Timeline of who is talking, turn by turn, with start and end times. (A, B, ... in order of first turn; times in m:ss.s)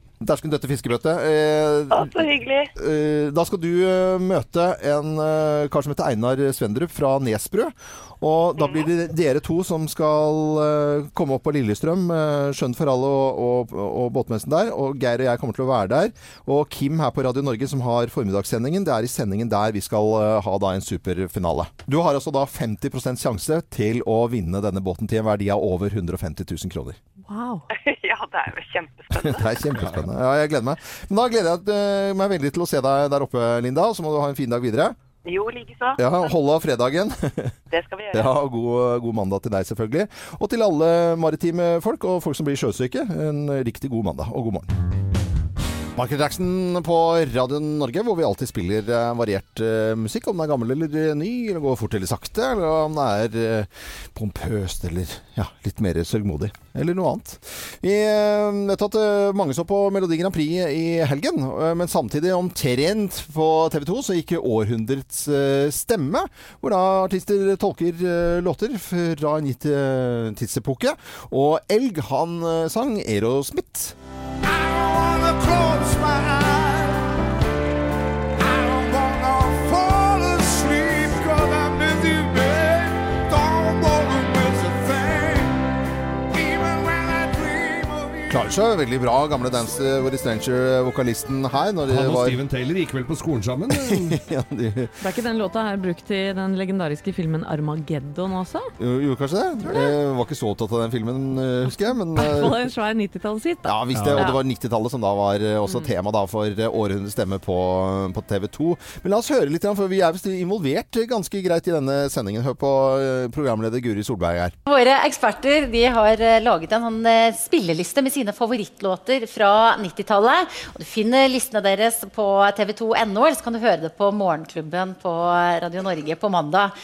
0:00.2-0:27.0 A
0:01.9-0:02.7 B
0:08.6-0:08.8 B
0:27.2-0:27.6 C
0:27.7-0:29.6 B
0:29.1-0:35.0 A
0:29.8-0:30.0 D
0:35.2-0:36.3 B
0:36.0-0:37.5 A
0:37.7-0:38.3 B
0:38.1-0:44.7 A
0:46.0-1:14.0 A
1:15.1-1:16.8 D
1:18.7-1:25.5 D
1:28.3-1:32.4 A
1:31.9-1:34.2 D
1:33.7-1:34.9 A
1:35.0-1:38.7 C
1:38.8-1:42.6 A
1:39.7-1:39.9 C
1:42.1-1:44.4 C
1:43.6-1:54.5 A
1:43.9-1:44.3 D
1:54.7-2:06.7 E